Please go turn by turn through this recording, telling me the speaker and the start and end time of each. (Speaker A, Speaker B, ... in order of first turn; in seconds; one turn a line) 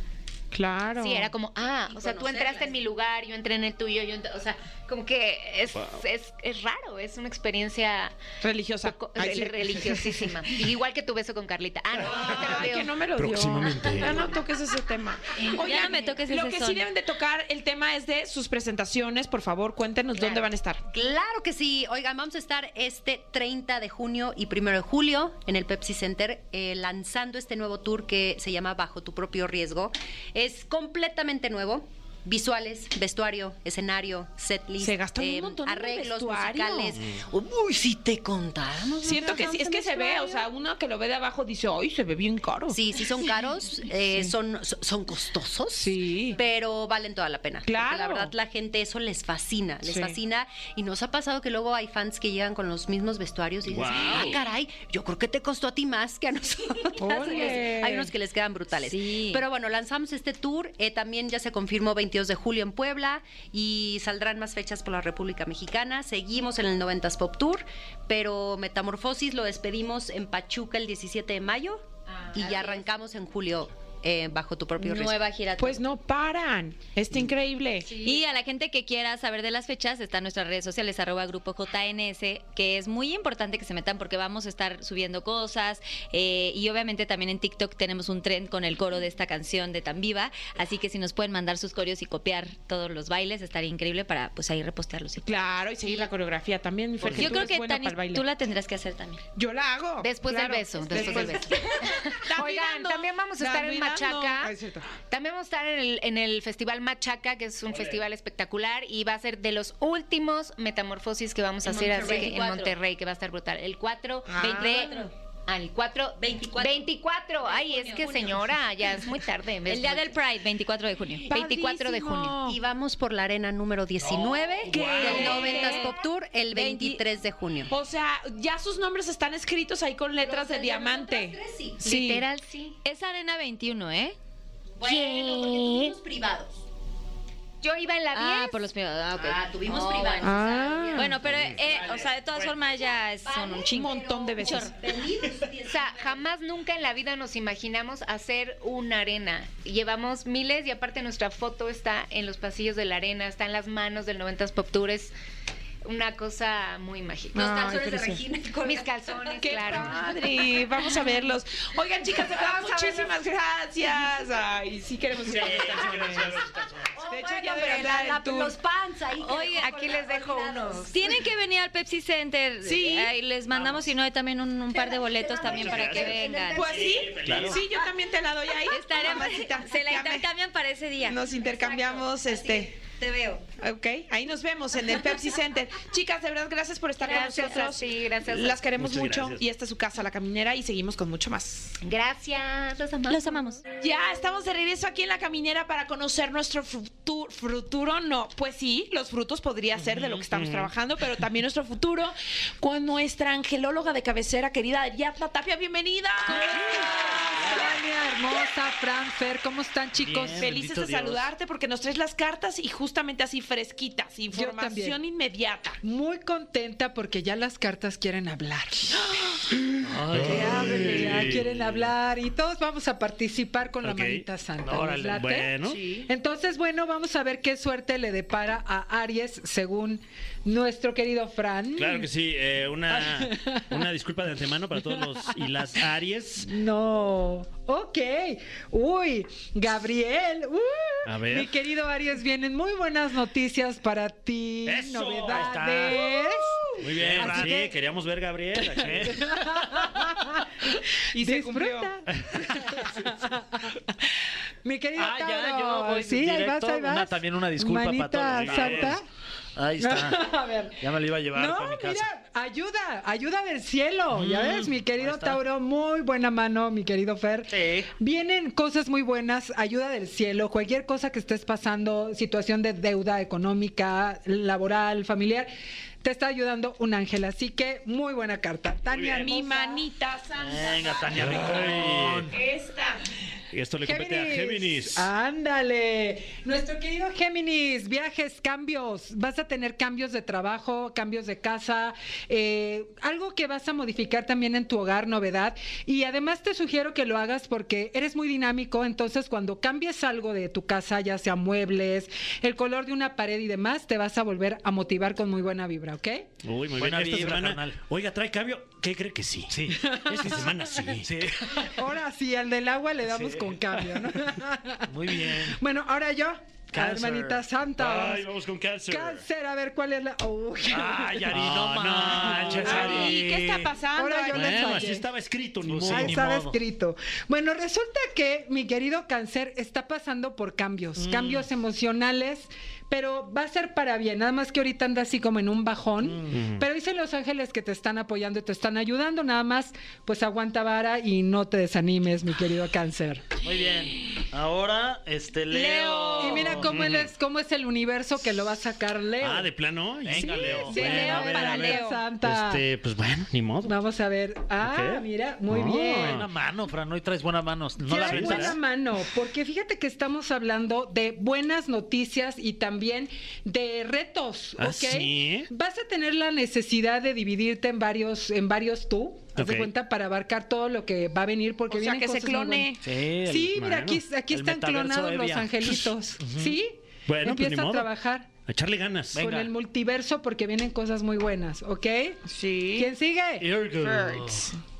Speaker A: 0.5-1.3
Speaker B: 1.0-8.2
Speaker C: 1.9-2.8
Speaker D: 5.7-6.0
Speaker A: 8.4-10.4
Speaker B: 8.8-12.9
Speaker A: 12.0-20.8
Speaker D: 13.1-14.3
Speaker B: 15.4-15.8
Speaker E: 15.5-16.9
Speaker C: 20.9-40.5
Speaker A: 34.8-37.0
Speaker D: 36.9-37.2
Speaker A: 39.0-43.0
Speaker C: 42.7-75.2
Speaker A: 45.8-46.4
Speaker A: 47.6-48.3
Speaker A: 49.8-50.1
Speaker D: 53.6-54.4
Speaker A: 57.0-58.0
Speaker F: 57.0-58.0
Speaker E: 57.3-57.5
Speaker E: 58.8-59.4
Speaker B: 72.1-72.8
Speaker E: 74.8-75.8
Speaker A: 75.6-77.9
Speaker B: 77.8-78.2
Speaker E: 78.0-95.3
Speaker A: 95.2-98.2
Speaker D: 97.0-97.4
Speaker E: 97.1-99.2
Speaker A: 99.3-101.5
Speaker B: 100.0-104.5
Speaker E: 101.0-101.2
Speaker A: 102.2-104.9
Speaker B: 105.1-120.2
Speaker D: 107.7-108.0
Speaker C: 111.6-112.7
Speaker E: 112.0-112.5
Speaker A: 114.3-114.9
Speaker E: 114.4-115.1
Speaker C: 116.2-118.6
Speaker E: 119.7-121.3
Speaker A: 121.3-122.6
Speaker B: 121.3-122.5
Speaker C: 122.4-127.7
Speaker A: 124.7-125.9
Speaker D: 124.7-125.3
Speaker E: 124.8-126.0
Speaker E: 126.5-127.0
Speaker A: 127.7-132.2
Speaker C: 130.2-131.8
Speaker B: 131.8-132.8
Speaker E: 132.8-134.2
Speaker C: 134.8-136.6
Speaker B: 137.6-138.6
Speaker E: 138.1-140.4
Speaker C: 139.1-142.1
Speaker A: 140.2-141.1
Speaker E: 140.9-144.7
Speaker D: 141.3-141.6
Speaker C: 142.8-146.2
Speaker A: 143.7-144.7
Speaker B: 145.6-155.1
Speaker B: 155.8-157.6
Speaker A: 157.3-158.2
Speaker C: 157.3-160.2
Speaker B: 158.6-160.0
Speaker A: 159.4-166.4
Speaker C: 162.0-163.1
Speaker G: 165.2-166.9
Speaker C: 166.9-171.1
Speaker A: 167.1-168.6
Speaker E: 169.2-169.7
Speaker B: 169.6-170.9
Speaker E: 170.9-176.7
Speaker A: 172.6-173.1
Speaker C: 174.7-177.6
Speaker D: 175.4-176.2
Speaker A: 176.5-180.3
Speaker D: 176.8-177.6
Speaker E: 178.7-183.4
Speaker A: 181.0-182.7
Speaker C: 181.6-183.2
Speaker A: 183.6-191.8
Speaker B: 187.0-188.7
Speaker D: 188.8-189.4
Speaker B: 191.8-193.4
Speaker E: 193.1-193.6
Speaker A: 193.8-207.7
Speaker G: 199.9-200.2
Speaker D: 200.3-200.7
Speaker G: 206.3-207.8
Speaker F: 206.3-210.5
Speaker G: 210.0-211.3
Speaker A: 210.4-215.8
Speaker F: 214.3-215.0
Speaker F: 215.8-219.1
Speaker G: 219.8-221.9
Speaker D: 220.1-221.4
Speaker F: 220.2-232.1
Speaker D: 223.8-224.2
Speaker G: 224.6-225.2
Speaker D: 225.1-225.9
Speaker A: 225.7-226.1
Speaker D: 231.7-236.5
Speaker F: 232.9-233.8
Speaker F: 234.7-235.3
Speaker F: 236.4-247.7
Speaker D: 241.0-241.6
Speaker D: 244.6-246.0
Speaker G: 245.3-246.3
Speaker D: 246.8-249.3
Speaker G: 247.0-247.7
Speaker G: 248.8-249.9
Speaker F: 249.0-253.9
Speaker A: 251.1-251.9
Speaker F: 254.6-259.0
Speaker G: 254.9-259.0
Speaker D: 258.3-259.0
Speaker G: 259.6-262.1
Speaker F: 259.8-275.5
Speaker G: 264.1-265.4
Speaker G: 267.5-267.9
Speaker F: 276.0-279.8
Speaker D: 278.9-279.3
Speaker A: 279.1-283.0
Speaker G: 280.4-282.3
Speaker D: 281.1-282.3
Speaker D: 283.5-285.1
Speaker F: 283.8-306.3
Speaker D: 306.4-311.1
Speaker G: 306.8-307.8
Speaker G: 309.5-310.4
Speaker F: 309.7-310.6
Speaker G: 311.0-311.9
Speaker F: 311.6-318.3
Speaker G: 313.1-313.7
Speaker G: 314.9-315.6
Speaker G: 316.7-317.4
Speaker D: 317.8-319.2
Speaker F: 318.9-321.4
Speaker G: 320.7-323.7
Speaker D: 321.3-323.1
Speaker A: 322.6-324.9
Speaker F: 322.7-323.0
Speaker F: 323.9-325.1
Speaker D: 324.3-326.2
Speaker G: 325.6-326.6
Speaker F: 325.9-343.2
Speaker G: 331.0-331.4
Speaker G: 336.0-336.4
Speaker D: 336.3-336.6
Speaker G: 343.4-346.7
Speaker A: 345.5-346.7
Speaker F: 346.1-349.5
Speaker D: 346.6-347.1
Speaker D: 349.2-351.3
Speaker G: 350.0-351.8
Speaker F: 350.1-352.6
Speaker A: 350.2-352.0
Speaker D: 352.2-353.7
Speaker F: 353.6-356.2
Speaker D: 354.6-356.3
Speaker G: 355.9-358.6
Speaker F: 357.8-372.7
Speaker D: 358.0-358.5
Speaker D: 364.6-365.5
Speaker D: 369.3-369.7
Speaker A: 371.7-372.8
Speaker G: 372.8-373.5
Speaker F: 373.2-378.3
Speaker D: 373.5-374.0
Speaker G: 374.3-376.6
Speaker D: 377.1-377.9
Speaker D: 378.4-379.2
Speaker G: 379.1-379.5
Speaker F: 379.2-382.2
Speaker A: 382.3-382.9
Speaker F: 382.7-383.5
Speaker G: 383.4-384.5
Speaker A: 383.8-384.6